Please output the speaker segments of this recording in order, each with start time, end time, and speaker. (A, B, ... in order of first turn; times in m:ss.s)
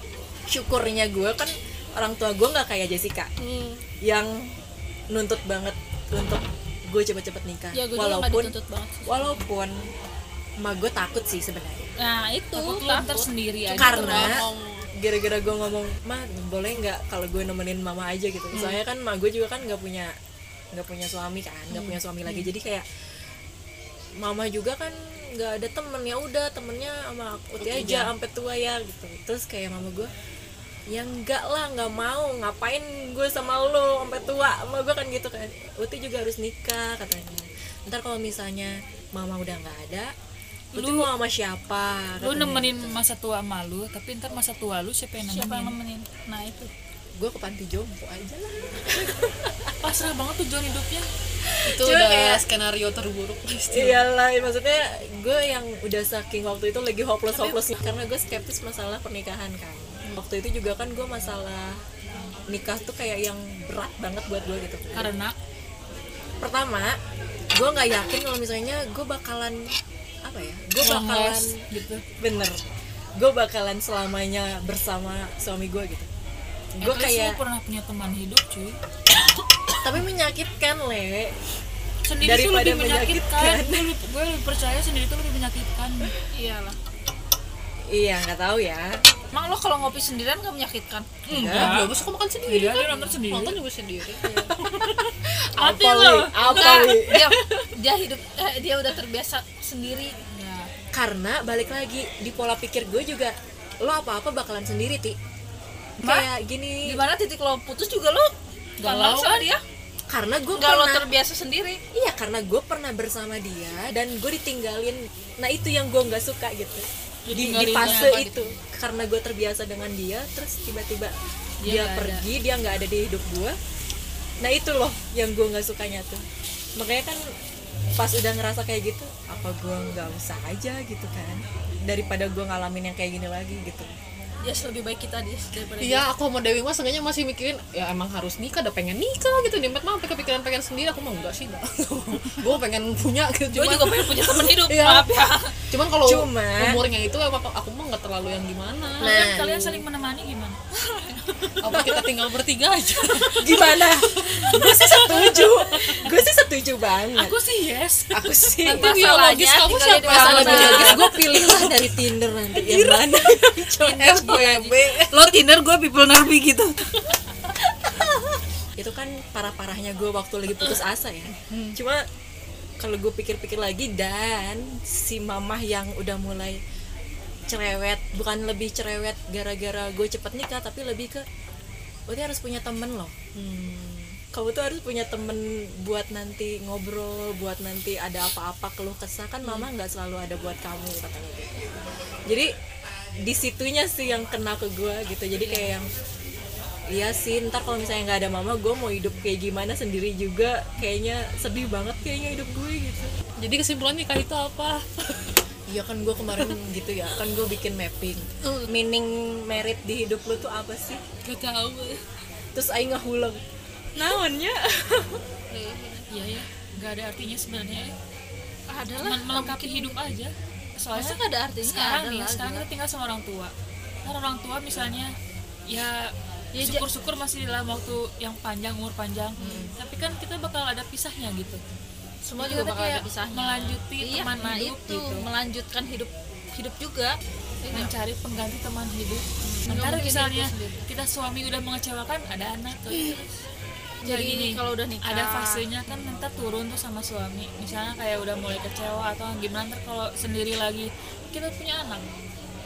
0:00.5-0:03.3 A
0:03.4-0:03.8 B
0:04.0-0:04.5 A
0:05.1-0:08.5 A
0:07.7-0:09.2 C
0:09.0-0:09.8 A
0:10.6-0:11.9 A
0:12.0-0:13.3 C
0:12.5-0:14.4 D
0:13.7-0:14.9 B
0:13.7-0:14.4 A
0:15.0-0:20.1 A
0:18.5-0:18.8 B
0:20.7-0:22.8 A
0:21.7-0:22.5 B
0:24.2-0:30.1 A
0:27.6-0:28.1 B
0:30.9-0:40.1 A
0:40.7-0:43.0 A
0:40.8-0:41.0 D
0:42.2-0:45.8 D
0:45.2-0:46.7 C
0:47.2-0:49.7 A
0:49.8-0:51.1 D
0:51.5-0:52.0 A
0:51.6-0:54.0 B
0:52.0-0:52.3 C
0:53.7-1:01.8 A
1:02.5-1:05.1 A
1:04.9-1:05.3 D
1:06.4-1:07.0 A
1:07.5-1:09.7 A
1:10.2-1:11.6 A
1:10.8-1:12.0 D
1:12.2-1:12.6 A
1:13.2-1:16.1 A
1:16.8-1:17.4 A
1:16.8-1:18.8 D
1:19.8-1:21.3 A
1:22.1-1:26.1 D
1:22.2-1:23.9 A
1:26.3-1:26.8 C
1:27.9-1:29.0 A
1:29.3-1:31.2 C
1:31.3-1:31.8 D
1:31.3-1:31.7 A
1:31.5-1:34.4 B
1:32.4-1:33.6 D
1:34.6-1:37.4 A
1:35.6-1:36.8 D
1:36.4-1:40.6 C
1:41.0-1:45.2 A
1:46.0-1:47.0 A
1:46.8-1:49.6 C
1:48.8-1:49.5 D
1:50.1-1:51.1 A
1:50.5-1:51.8 C
1:51.9-2:01.1 A
1:57.3-1:58.2 D
1:57.4-1:58.5 B
2:01.6-2:02.2 D
2:01.6-2:03.6 A
2:04.4-2:06.2 A
2:06.8-2:07.2 A
2:08.0-2:13.9 A
2:14.4-2:16.0 C
2:15.8-2:29.5 B
2:23.5-2:25.5 C
2:26.0-2:26.8 A
2:29.0-2:29.6 A
2:29.0-2:30.6 D
2:30.8-2:31.7 C
2:31.6-2:36.0 B
2:31.7-2:32.0 A
2:33.4-2:37.4 A
2:34.2-2:35.0 D
2:37.1-2:38.2 D
2:38.1-2:39.0 A
2:38.6-2:41.9 B
2:38.8-2:41.1 C
2:40.1-2:40.8 D
2:40.1-2:44.3 A
2:42.7-2:43.0 B
2:43.8-2:46.7 C
2:43.8-2:45.4 B
2:48.8-2:52.0 A
2:51.4-2:51.7 B
2:52.8-2:56.6 A
2:57.5-3:01.2 A
3:02.1-3:11.7 A
3:13.2-3:15.9 A
3:16.9-3:23.1 A
3:23.4-3:25.3 B
3:25.7-3:31.0 A
3:28.4-3:28.7 B
3:31.2-3:32.0 B
3:32.5-3:33.4 A
3:34.0-3:35.2 A
3:35.5-3:36.1 C
3:36.1-3:37.9 D
3:38.7-3:40.0 C
3:39.0-3:43.5 D
3:40.9-3:42.6 C
3:44.0-3:45.1 D
3:45.7-3:51.6 D
3:46.5-3:46.8 C
3:49.4-3:49.7 A
3:52.2-3:57.9 C
3:52.4-3:55.3 D
3:57.7-4:02.9 D
3:59.4-4:00.7 C
3:59.9-4:00.7 B
4:02.8-4:03.2 C
4:02.9-4:03.2 B
4:04.0-4:05.6 C
4:04.0-4:12.0 D